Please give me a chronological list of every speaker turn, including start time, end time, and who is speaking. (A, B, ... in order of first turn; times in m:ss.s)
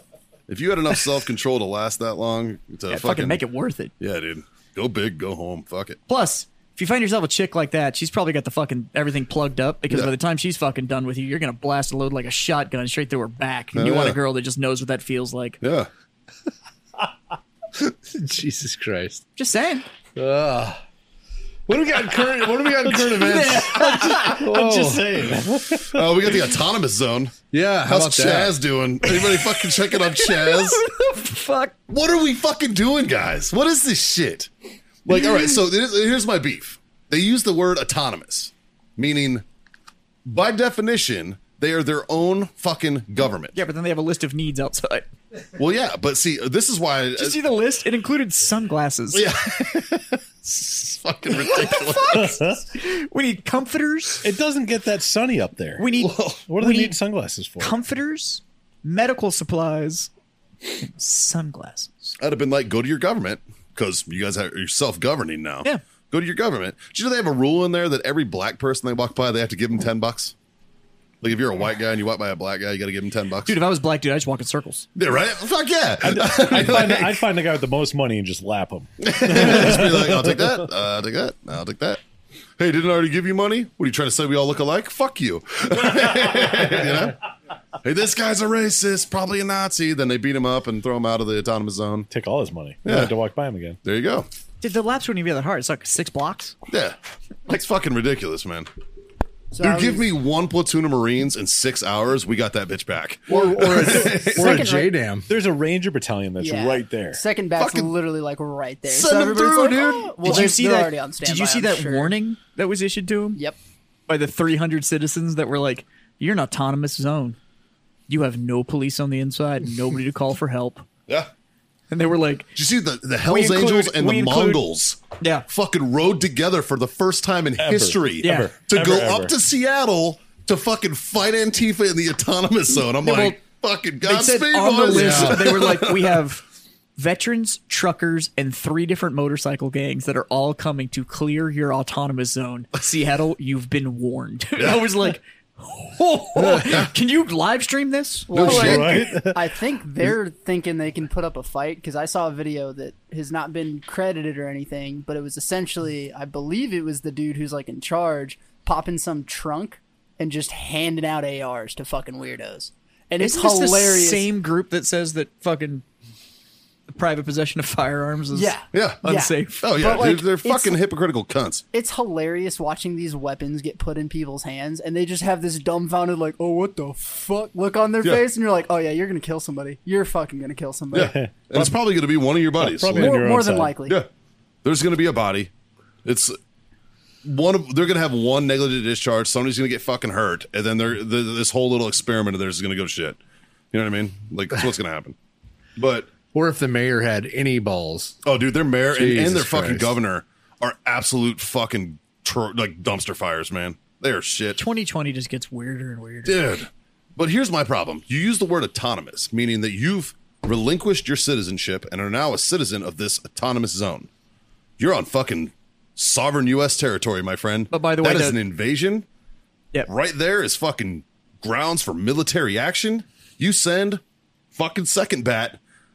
0:00.5-0:03.4 A
0:02.9-0:03.9 B
0:04.0-0:06.0 A
0:06.1-0:15.6 B
0:13.7-0:14.2 A
0:15.6-0:15.9 A
0:17.9-0:19.2 C
0:19.4-0:19.8 B
0:20.2-0:20.8 C
0:21.7-0:25.5 C
0:23.0-0:25.4 B
0:23.9-0:24.2 A
0:25.0-0:30.8 A
0:27.5-0:28.6 C
0:29.0-0:31.8 B
0:31.9-0:34.5 A
0:35.0-0:39.4 A
0:40.2-0:43.6 A
0:43.5-0:45.1 B
0:45.6-0:47.4 A
0:47.2-0:49.3 B
0:49.1-0:52.4 A
0:51.3-0:54.2 B
0:52.2-0:52.6 D
0:54.2-0:55.8 D
0:55.8-0:56.9 B
0:56.0-0:56.4 A
0:56.5-0:57.7 D
0:57.6-1:00.1 B
1:00.8-1:01.9 B
1:02.2-1:10.3 A
1:11.2-1:13.6 A
1:13.4-1:14.9 B
1:15.0-1:17.2 A
1:16.0-1:20.6 D
1:19.0-1:22.0 A
1:22.6-1:27.2 A
1:27.8-1:32.1 A
1:32.1-1:33.8 D
1:32.8-1:33.1 A
1:33.8-1:34.3 A
1:34.6-1:36.6 B
1:36.7-1:38.7 A
1:39.5-1:40.1 E
1:39.6-1:44.7 A
1:43.3-1:47.2 D
1:43.3-1:45.3 C
1:44.4-1:44.8 E
1:46.4-1:52.1 E
1:47.6-1:47.9 A
1:48.9-1:50.3 A
1:50.2-1:53.4 B
1:54.1-1:57.4 B
1:58.1-2:00.8 B
2:01.9-2:02.5 B
2:02.6-2:16.2 A
2:03.2-2:04.6 B
2:05.2-2:05.5 B
2:07.6-2:09.3 D
2:08.2-2:08.5 B
2:13.0-2:13.4 B
2:14.0-2:16.4 B
2:14.9-2:15.5 C
2:17.0-2:28.9 B
2:24.6-2:25.0 A
2:26.5-2:26.8 A
2:28.3-2:44.3 E
2:28.4-2:29.5 D
2:28.4-2:28.9 A
2:43.2-2:45.8 B
2:46.9-2:50.0 B
2:48.3-2:50.8 E
2:48.7-2:49.0 A
2:49.6-2:51.6 A
2:51.7-3:01.2 E
3:00.9-3:03.2 A
3:00.9-3:01.8 D
3:02.6-3:03.8 D
3:02.9-3:04.0 E
3:04.6-3:05.5 A
3:06.0-3:06.4 A
3:07.2-3:13.2 A
3:13.7-3:15.1 A
3:15.8-3:16.1 A
3:16.3-3:18.2 C
3:18.2-3:24.6 A
3:18.9-3:19.9 C
3:24.5-3:26.4 B
3:26.2-3:34.1 A
3:34.8-3:39.0 A
3:37.7-3:38.4 B
3:39.9-3:44.0 A
3:44.5-3:45.6 A